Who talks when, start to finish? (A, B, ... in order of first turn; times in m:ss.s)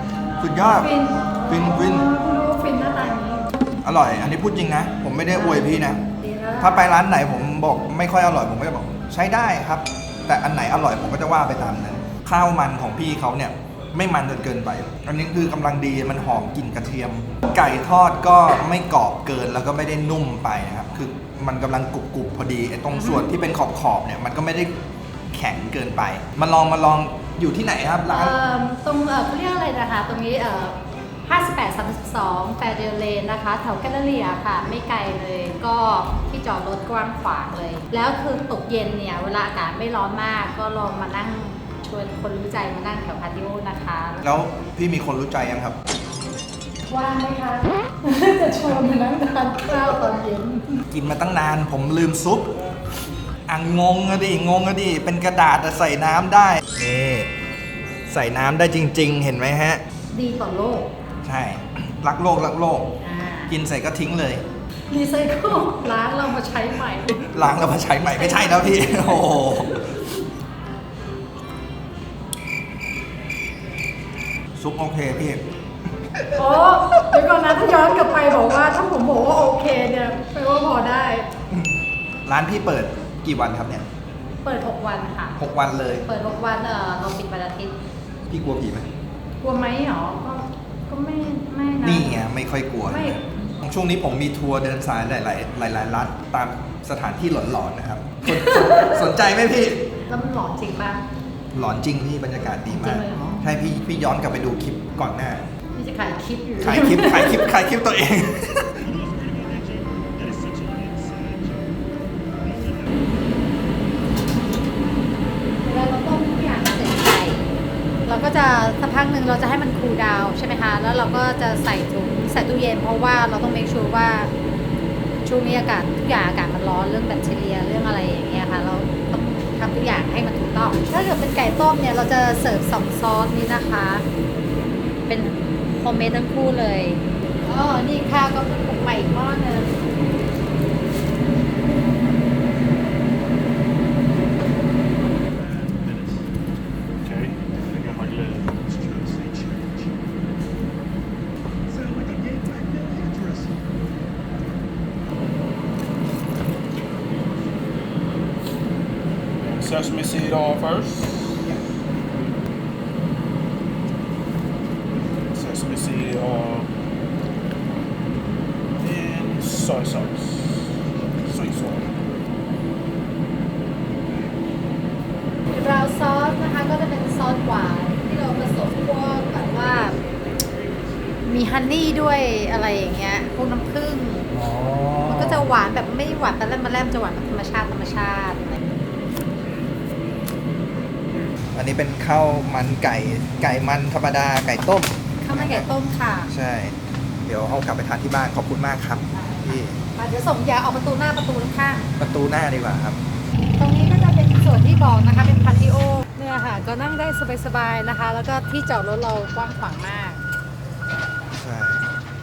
0:00.4-0:00.9 A
0:00.6-0:03.5 B
0:01.5-0:02.1 A
0:03.8-0:06.0 A
0:05.3-0:06.9 B
0:06.6-0:24.8 A
0:22.9-0:23.3 B
0:25.3-0:28.4 A
0:28.1-0:44.4 B
0:44.2-0:45.8 A
0:46.9-0:50.8 B
0:50.9-0:52.6 A
0:53.5-0:57.3 A
0:58.1-0:59.8 A
1:00.1-1:00.9 B
1:01.2-1:02.9 A
1:03.0-1:03.6 B
1:03.5-1:04.4 A
1:04.9-1:07.3 B
1:07.2-1:10.1 A
1:08.0-1:09.5 B
1:14.6-1:15.4 A
1:16.2-1:17.2 A
1:16.4-1:21.3 B
1:22.3-1:23.9 A
1:24.4-1:25.4 B
1:25.4-1:26.0 A
1:26.0-1:27.8 B
1:28.3-1:28.9 A
1:29.4-1:32.2 B
1:31.8-1:39.9 A
1:32.9-1:33.4 B
1:38.3-1:39.0 B
1:40.1-1:41.1 B
1:41.5-1:45.5 A
1:42.7-1:43.4 B
1:45.8-1:47.5 B
1:46.6-1:49.0 A
1:55.6-1:57.4 B
1:58.1-2:04.3 B
2:05.2-2:14.1 B
2:15.1-2:19.8 B
2:27.0-2:28.5 C
2:39.4-2:41.6 C
2:45.3-2:46.7 C
2:48.8-2:50.7 C
2:51.2-2:51.9 C
2:55.5-3:00.0 B
3:01.2-3:04.3 B
3:04.3-3:05.5 A
3:05.0-3:08.6 B
3:11.5-3:15.7 A
3:15.2-3:16.3 B
3:16.3-3:19.8 A
3:19.1-3:21.9 B
3:22.0-3:23.0 A
3:23.6-3:30.2 B
3:31.4-3:31.9 A